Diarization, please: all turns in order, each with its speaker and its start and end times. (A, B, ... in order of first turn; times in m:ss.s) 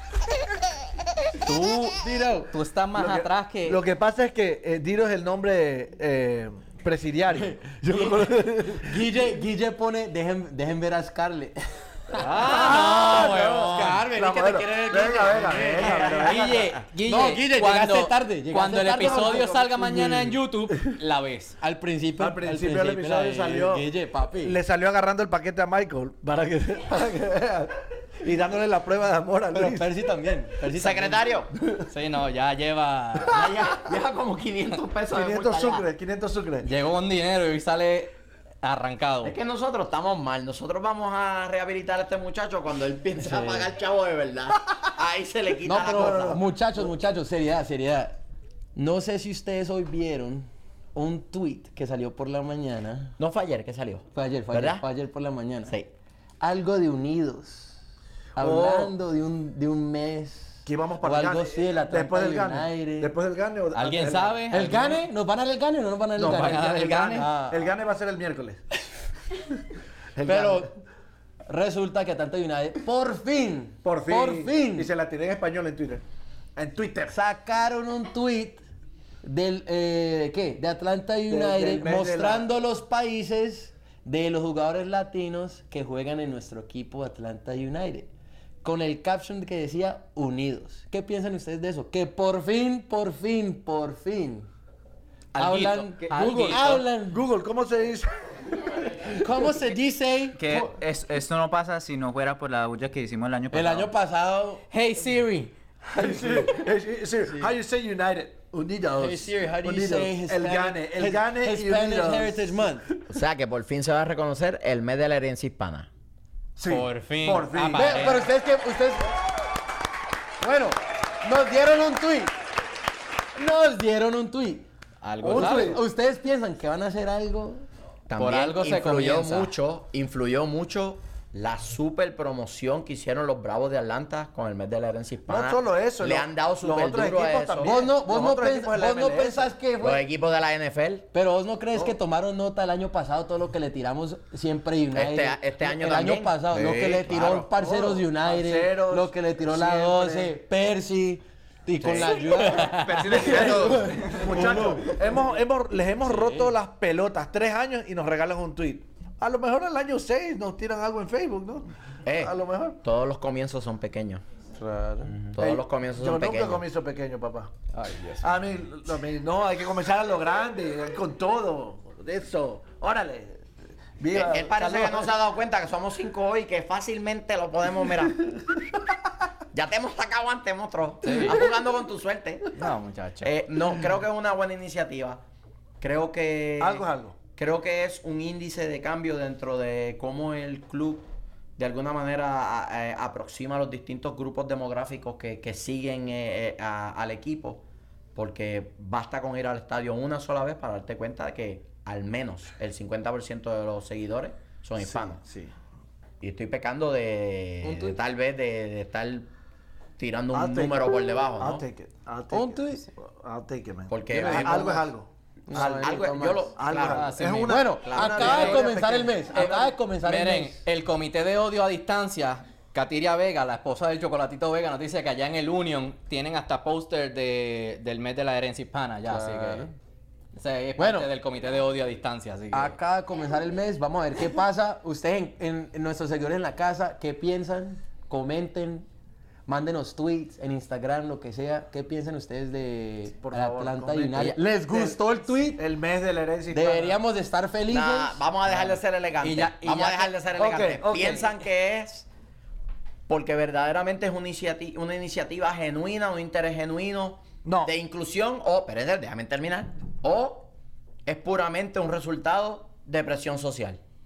0:01.4-0:03.8 A
0:02.0-0:02.5 B
0:03.0-0:09.1 C
0:07.6-0:20.4 B
0:12.2-0:14.0 A
0:12.4-0:16.7 C
0:16.0-0:21.6 A
0:19.0-0:19.6 C
0:21.6-0:24.6 B
0:22.2-0:23.9 C
0:24.4-0:29.9 C
0:29.5-0:31.2 B
0:30.8-0:31.5 D
0:31.9-0:33.4 A
0:33.3-0:35.8 D
0:35.1-0:36.7 C
0:36.6-0:39.4 A
0:39.2-0:46.4 D
0:43.2-0:43.7 B
0:45.6-0:48.2 B
0:45.8-0:46.5 C
0:48.8-0:53.1 B
0:53.2-0:54.8 D
0:54.1-0:55.7 B
0:56.4-0:57.8 B
0:58.4-1:03.1 B
0:58.4-0:58.9 C
1:00.7-1:04.8 C
1:03.7-1:05.0 A
1:04.5-1:07.6 B
1:06.2-1:08.6 C
1:06.2-1:07.3 A
1:10.2-1:10.7 C
1:10.2-1:10.7 B
1:11.5-1:14.9 B
1:13.8-1:16.0 C
1:16.6-1:17.2 C
1:17.1-1:18.6 B
1:19.2-1:28.1 B
1:21.3-1:22.5 C
1:28.6-1:34.5 B
1:35.3-1:36.8 A
1:35.4-1:37.2 B
1:37.1-1:38.1 C
1:39.1-1:40.7 B
1:40.4-1:43.9 E
1:43.5-1:44.6 B
1:44.7-1:45.5 A
1:45.9-1:46.5 B
1:46.0-1:52.6 C
1:49.0-1:52.9 B
1:53.1-1:55.9 D
1:56.6-1:58.1 C
1:56.6-1:58.3 A
1:57.7-1:59.2 B
2:00.4-2:02.3 B
2:03.4-2:04.7 B
2:05.0-2:05.8 A
2:05.2-2:05.8 C
2:05.2-2:07.7 B
2:08.1-2:17.8 D
2:08.2-2:09.5 A
2:15.3-2:19.5 C
2:17.6-2:20.0 B
2:19.8-2:21.1 D
2:21.1-2:34.9 B
2:24.9-2:27.5 D
2:27.6-2:30.4 C
2:31.8-2:32.4 C
2:32.4-2:33.0 A
2:32.6-2:34.7 E
2:33.1-2:42.8 C
2:36.0-2:36.5 B
2:42.0-2:44.2 D
2:44.6-2:45.1 B
2:45.3-2:46.6 D
2:45.4-2:47.5 C
2:47.7-2:48.3 A
2:48.2-2:53.4 C
2:54.0-2:55.1 C
2:54.1-2:58.3 D
2:59.5-3:02.5 D
3:01.0-3:01.4 A
3:02.6-3:03.3 A
3:03.2-3:05.2 D
3:05.8-3:17.6 D
3:06.6-3:07.2 C
3:18.1-3:25.2 D
3:24.8-3:25.5 C
3:26.2-3:29.3 D
3:27.6-3:28.0 B
3:30.0-3:31.6 D
3:30.3-3:35.8 C
3:32.3-3:32.9 B
3:33.9-3:34.9 D
3:34.1-3:34.8 B
3:35.5-3:36.5 B
3:35.5-3:37.1 D
3:36.6-3:39.7 C
3:36.9-3:37.7 A
3:37.5-3:40.6 B
3:37.8-3:38.6 D
3:39.3-3:49.7 A
3:49.1-3:49.7 B
3:50.4-3:52.8 A
3:50.8-3:51.1 B
3:52.5-3:58.9 B
3:59.5-4:05.6 B
4:03.2-4:05.0 C
4:05.6-4:07.0 C
4:06.5-4:08.2 B
4:07.7-4:12.1 D
4:09.2-4:10.1 B
4:10.4-4:11.3 C
4:13.1-4:20.5 D
4:17.4-4:17.7 C
4:21.1-4:23.8 D